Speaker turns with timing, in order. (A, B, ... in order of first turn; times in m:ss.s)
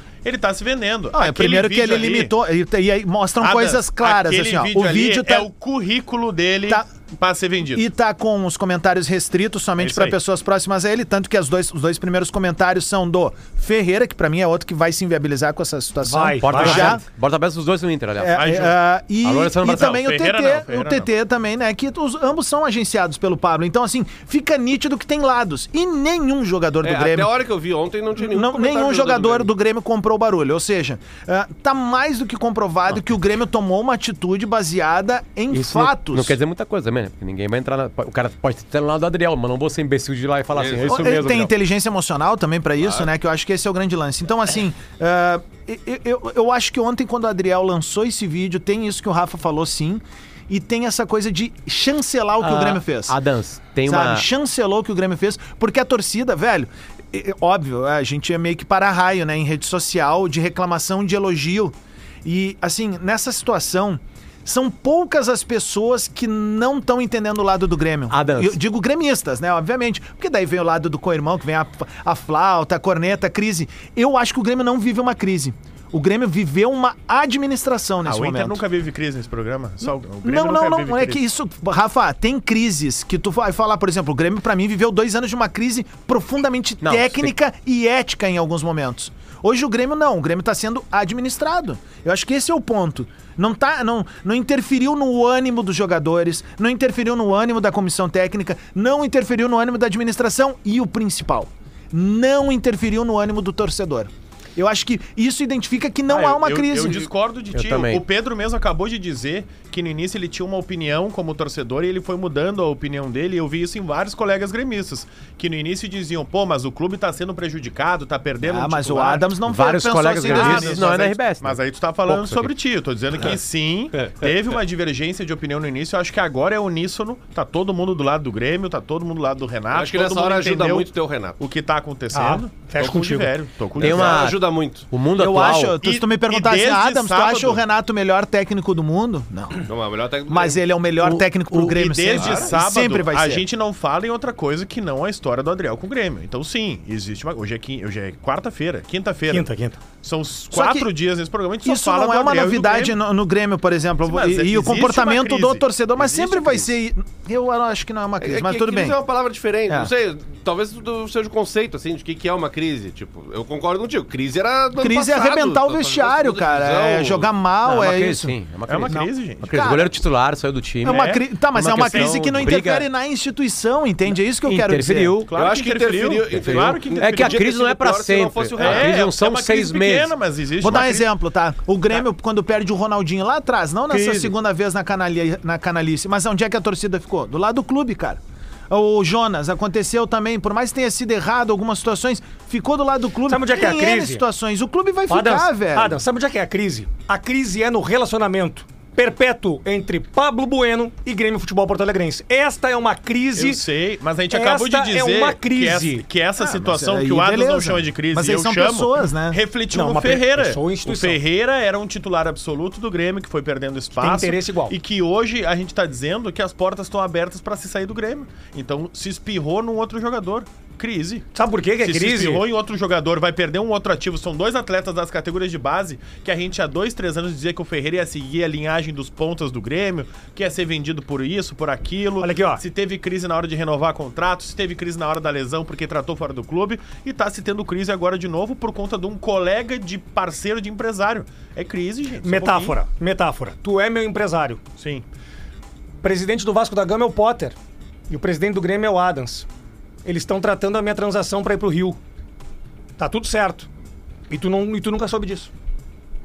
0:00.2-0:02.3 A
0:01.1-0:05.5 B
0:03.4-0:07.9 A
0:07.7-0:17.0 B
0:09.8-0:10.2 A
0:16.0-0:17.0 C
0:16.4-0:18.5 D
0:18.2-0:27.3 B
0:18.3-0:18.8 A
0:19.2-0:19.9 D
0:19.7-0:21.1 A
0:26.8-0:29.5 E
0:28.2-0:36.4 B
0:35.5-0:41.5 D
0:40.6-0:41.2 E
0:40.9-0:53.2 B
0:52.4-0:54.3 D
0:53.9-1:18.6 B
1:08.1-1:08.6 D
1:18.0-1:21.2 A
1:20.2-1:47.1 B
1:26.8-1:27.3 D
1:46.1-1:59.3 A
1:47.5-1:48.0 D
1:58.4-2:00.8 B
1:59.5-2:02.5 D
2:00.2-2:14.3 A
2:04.0-2:04.3 E
2:09.7-2:11.4 E
2:12.1-2:13.4 C
2:13.8-2:14.9 E
2:13.8-2:15.8 D
2:15.2-2:19.7 B
2:15.8-2:17.6 A
2:19.7-2:20.6 E
2:20.3-2:23.4 B
2:21.0-2:21.7 D
2:21.6-2:29.5 A
2:22.2-2:22.5 E
2:29.3-2:29.8 C
2:30.0-2:33.0 A
2:30.5-2:30.9 B
2:31.6-2:39.0 B
2:34.0-2:35.6 A
2:38.2-2:47.3 E
2:44.8-2:48.4 B
2:47.6-2:52.9 D
2:48.7-2:49.5 A
2:48.9-2:50.0 B
2:50.8-2:51.2 A
2:50.8-2:55.2 B
2:51.8-2:52.5 A
2:54.4-2:55.3 D
2:55.3-2:57.5 A
2:55.4-2:58.9 E
2:56.4-3:00.1 D
2:58.6-3:01.1 A
3:00.6-3:16.0 B
3:03.9-3:04.2 D
3:13.3-3:14.2 C
3:15.1-3:23.6 C
3:23.4-3:41.3 A
3:24.3-3:26.1 C
3:26.4-3:29.4 B
3:29.7-3:31.2 C
3:34.0-3:34.8 C
3:41.3-3:42.4 C
3:41.8-4:02.8 A
3:52.2-3:52.6 C
4:02.2-4:04.6 C
4:04.8-4:05.0 A
4:06.0-4:07.6 C
4:08.1-4:09.5 C
4:10.0-4:12.0 C
4:13.0-4:13.7 C
4:14.3-4:15.5 C